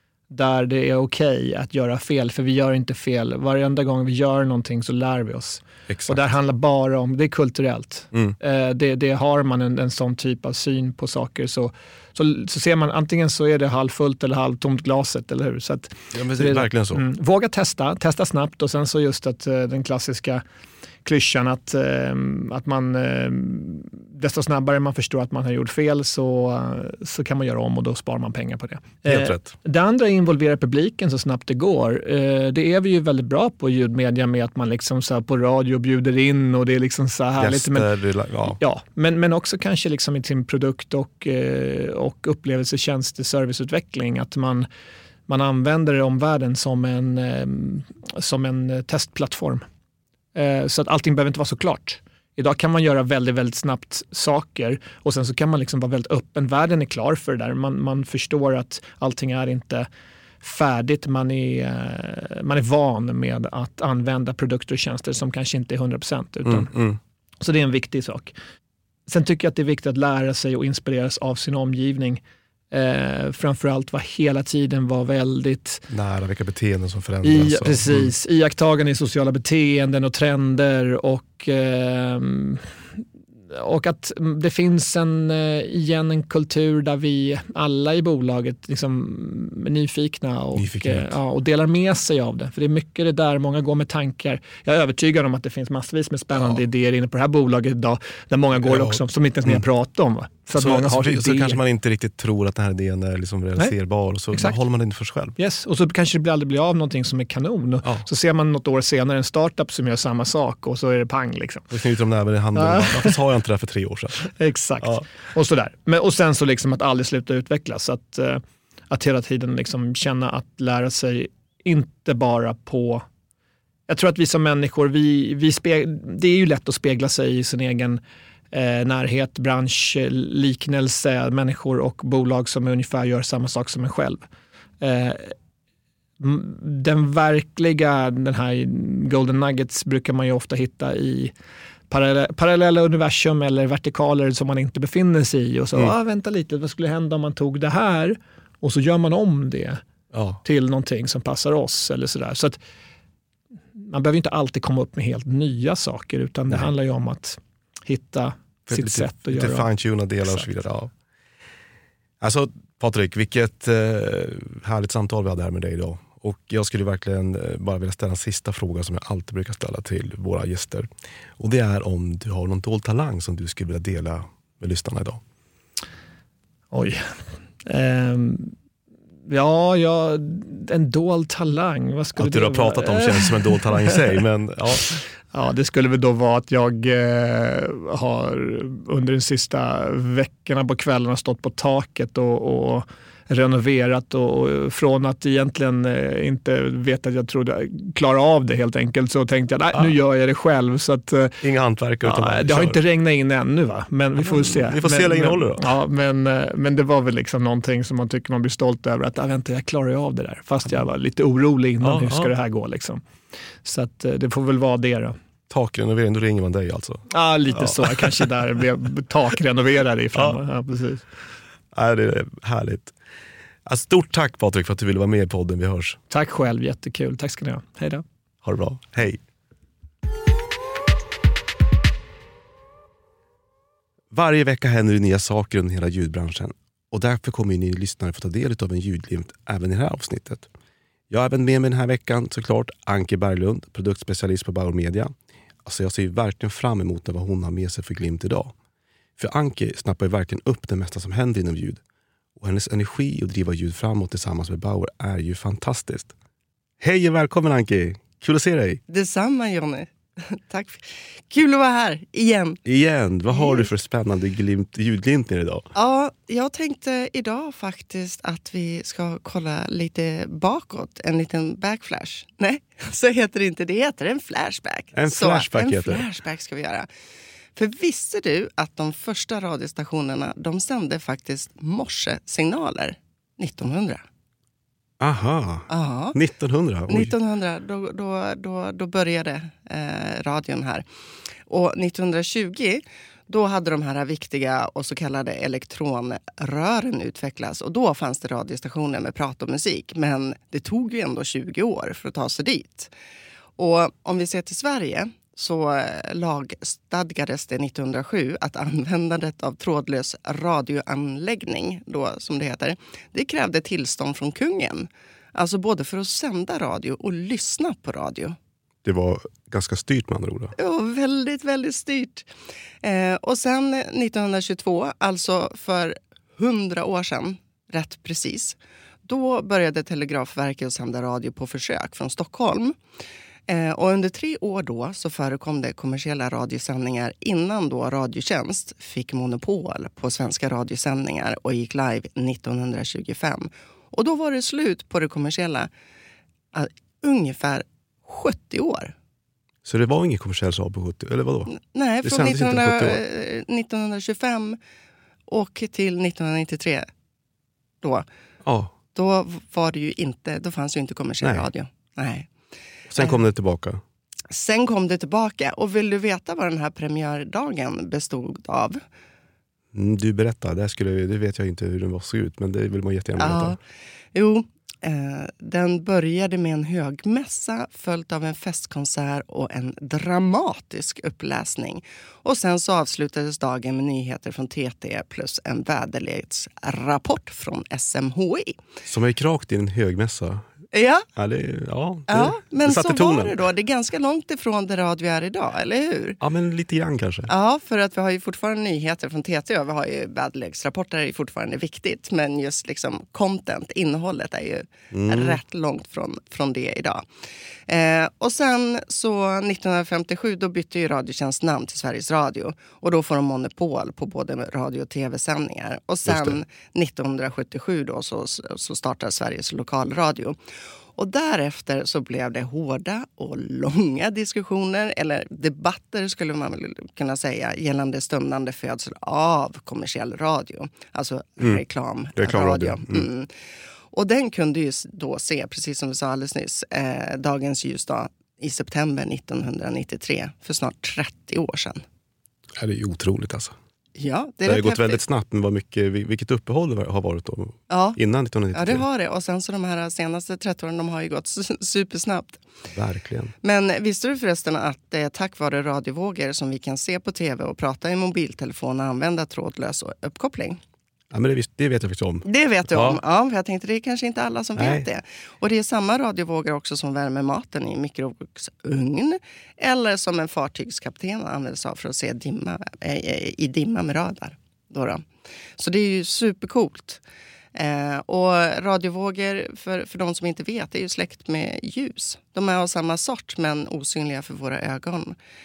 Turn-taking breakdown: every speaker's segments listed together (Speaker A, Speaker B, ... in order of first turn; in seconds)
Speaker A: 0.3-20.4, 21.0-37.9, 38.5-44.7, 45.3-49.6, 50.3-59.9, 60.4-66.7, 67.4-68.3, 69.1-75.9, 77.2-82.7, 83.5-101.6, 105.4-111.7, 112.5-113.2, 114.3-123.0, 123.9-128.0, 128.5-134.2, 134.8-135.3, 136.2-141.3, 141.9-149.8, 150.4-152.6, 153.7-159.7, 176.7-178.5, 179.3-184.0, 185.3-201.4, 202.0-213.0, 213.6-215.2, 217.1-221.1, 226.1-228.0
Speaker B: 5.9-6.2, 16.1-17.0, 29.0-29.5, 37.4-38.6, 66.5-67.0, 75.9-78.1, 90.5-91.1, 98.6-99.6, 100.5-105.3, 111.7-115.0, 150.1-150.4, 158.7-160.9, 162.2-175.2, 182.2-185.0, 201.4-202.8, 204.2-205.7, 211.8-212.3, 215.5-218.2, 221.7-222.9, 223.6-226.0, 228.4-229.2, 234.1-240.5, 241.1-245.1, 245.6-248.5, 249.2-251.8, 252.4-256.1, 256.8-258.8, 262.6-265.7, 274.9-276.1, 285.0-287.1, 318.8-320.5, 349.6-353.0, 358.4-358.7, 361.2-361.5, 362.9-363.8, 369.7-373.6, 388.8-390.5, 391.1-393.4, 396.2-397.3, 404.9-405.4, 416.1-416.4, 432.1-433.1, 442.6-443.5, 444.4-448.8, 452.7-453.3, 461.1-463.0, 464.6-464.9
Speaker C: 258.9-262.6, 263.3-263.7, 265.7-276.9, 277.5-284.0, 285.7-286.2, 286.9-290.8, 291.5-302.9, 303.6-318.4, 320.6-322.3, 322.8-332.8, 333.5-345.7, 346.5-348.9, 351.5-354.6, 355.3-356.9, 358.9-362.3, 364.3-368.8, 373.2-373.6, 374.1-388.6, 390.7-391.1, 392.1-396.2, 397.3-407.0, 407.7-420.4, 420.9-433.3, 433.9-441.8, 443.9-445.0, 447.7-448.0, 448.5-452.4, 453.4-460.6, 462.2-475.0, 475.6-477.0, 477.5-485.1